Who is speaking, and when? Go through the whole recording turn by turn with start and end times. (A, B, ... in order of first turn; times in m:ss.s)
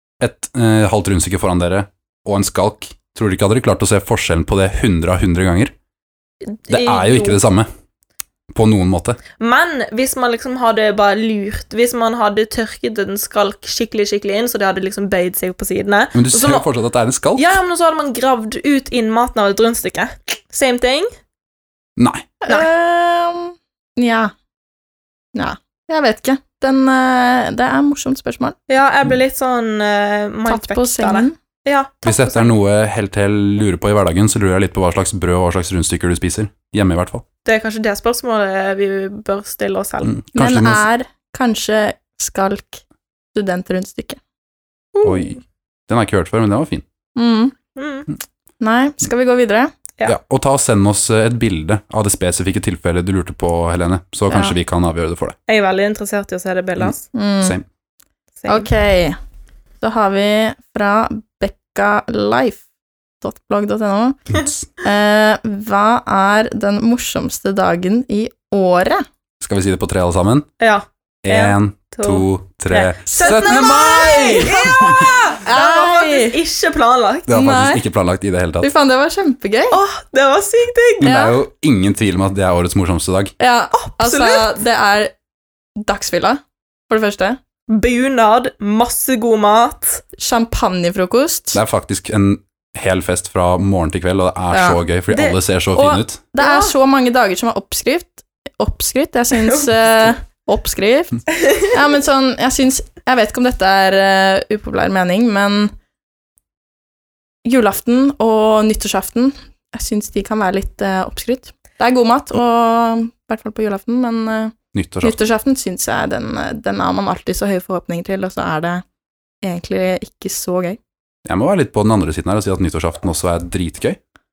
0:00.2-0:05.7 A
0:06.5-0:07.4 B
0:06.7-0:07.7 A
0:08.5-0:09.2 A
0:09.4-0:16.7 B
0:16.1-0:17.6 A
0:17.4-0:21.1 B
0:22.0-0:22.3 A
0:22.4-0:24.3 C
0:25.3-0:28.6 C
0:28.7-0:32.5 B
0:30.5-0:31.4 C
0:32.0-0:37.2 A
0:37.4-0:40.1 B
0:40.0-0:40.8 A
0:40.3-0:42.8 C
0:43.3-0:44.2 C
0:44.9-0:45.4 B
0:45.0-0:46.8 A
0:47.2-0:47.5 C
0:47.8-0:48.1 B
0:48.6-0:49.7 C
0:50.0-0:55.4 A
0:54.3-0:54.5 C
0:55.5-0:57.0 B
0:56.8-0:57.6 A
0:57.1-0:57.6 C
0:58.4-0:58.7 B
0:58.5-0:59.2 C
0:59.8-1:02.6 C
1:03.2-1:04.2 C
1:04.8-1:09.0 C
1:09.4-1:10.5 A
1:10.6-1:17.3 B
1:11.2-1:15.1 A
1:13.2-1:13.9 C
1:15.4-1:16.4 C
1:17.3-1:18.7 A
1:17.3-1:17.8 C
1:18.6-1:19.8 C
1:19.7-1:21.2 B
1:21.0-1:23.3 A
1:21.0-1:21.3 C
1:23.4-1:25.1 C
1:23.8-1:24.6 B
1:25.8-1:27.4 C
1:27.7-1:30.0 B
1:30.2-1:31.6 C
1:31.5-1:36.2 A
1:34.5-1:34.8 C
1:35.1-1:35.4 B
1:35.8-1:45.7 C
1:36.4-1:36.7 B
1:39.3-1:40.1 B
1:47.4-1:58.8 C
1:54.7-1:55.2 A
1:59.4-2:00.8 C
2:01.2-2:04.0 A